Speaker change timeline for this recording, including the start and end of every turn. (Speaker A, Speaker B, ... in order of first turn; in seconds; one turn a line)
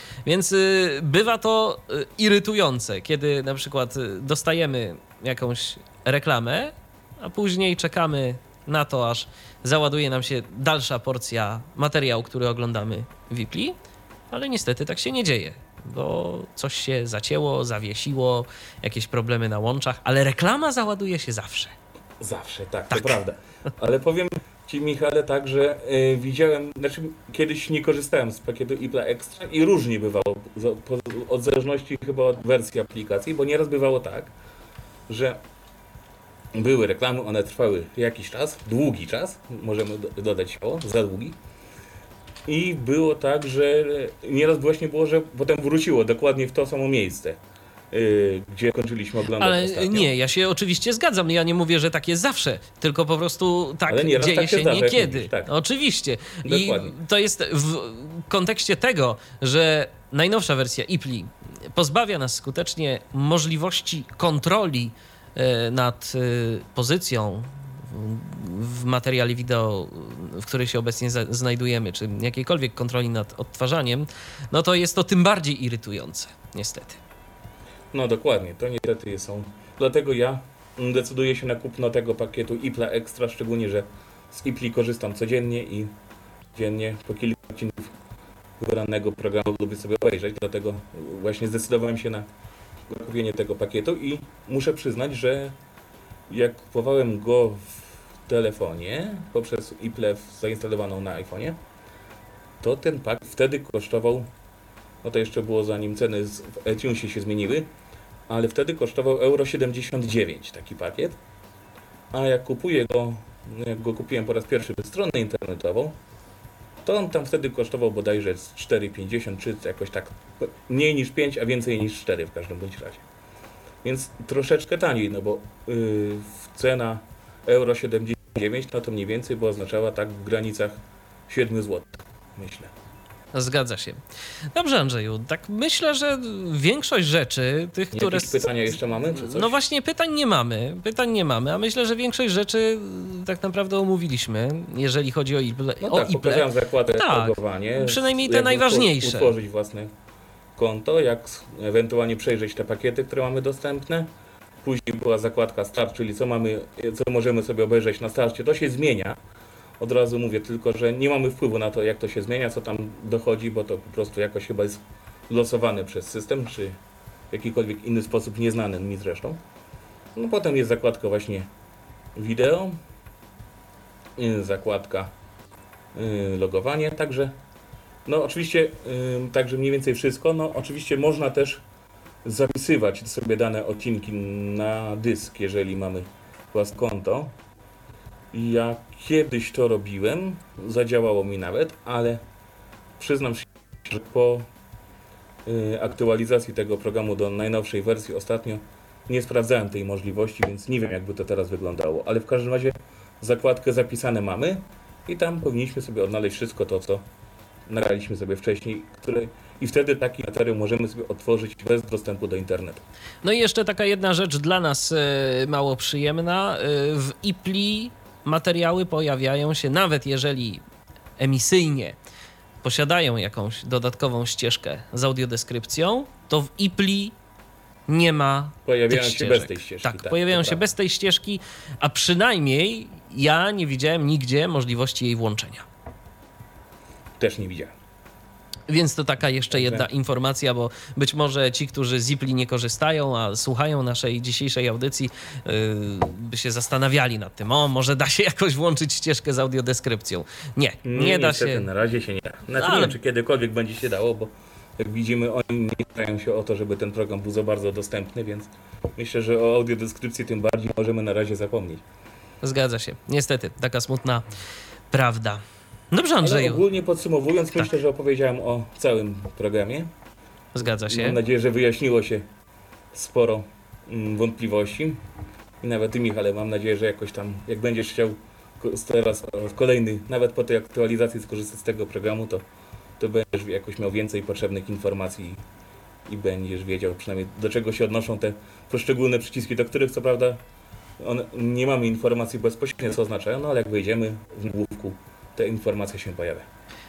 Speaker A: 0.2-13.8
Speaker A: 14.3-21.7
Speaker B: 22.2-34.3
Speaker B: 35.1-35.4
Speaker B: 36.5-41.4
Speaker B: 42.5-47.4
Speaker B: 47.9-50.1
Speaker A: 49.4-77.0
Speaker B: 53.9-55.5
Speaker B: 56.4-57.0
Speaker B: 77.9-85.9
Speaker B: 86.5-87.9
Speaker B: 88.6-92.3
Speaker B: 92.9-95.5
Speaker B: 96.3-101.6
Speaker B: 102.6-104.3
Speaker B: 105.0-107.7
Speaker B: 108.3-111.2
Speaker B: 112.1-115.9
Speaker B: 116.8-123.0
Speaker B: 123.8-132.7
Speaker A: 133.3-134.0
Speaker A: 134.5-138.6
Speaker B: 137.9-139.6
Speaker A: 139.1-149.3
Speaker B: 145.8-149.9
Speaker B: 150.6-154.1
Speaker B: 154.6-159.2
Speaker B: 159.8-166.8
Speaker B: 167.3-169.4
Speaker B: 170.1-171.5
Speaker B: 172.1-172.8
Speaker B: 174.2-175.1
Speaker B: 175.9-177.3
Speaker B: 178.1-181.6
Speaker B: 182.2-187.3
Speaker B: 188.3-192.2
Speaker B: 193.0-194.5
Speaker B: 195.4-207.0
Speaker B: 207.7-212.8
Speaker A: 213.2-220.6
Speaker A: 221.2-221.9
Speaker A: 222.6-227.1
Speaker A: 227.9-235.6
Speaker B: 228.7-230.7
Speaker B: 237.2-237.7
Speaker A: 238.7-251.7
Speaker B: 239.5-239.9
Speaker B: 250.8-261.8
Speaker A: 252.5-252.9
Speaker A: 262.4-264.3
Speaker A: 264.9-266.6
Speaker B: 266.2-269.9
Speaker A: 270.5-271.2
Speaker B: 270.9-272.2
Speaker B: 272.9-275.0
Speaker B: 275.6-282.4
Speaker B: 283.0-285.4
Speaker B: 286.1-290.4
Speaker B: 291.0-296.4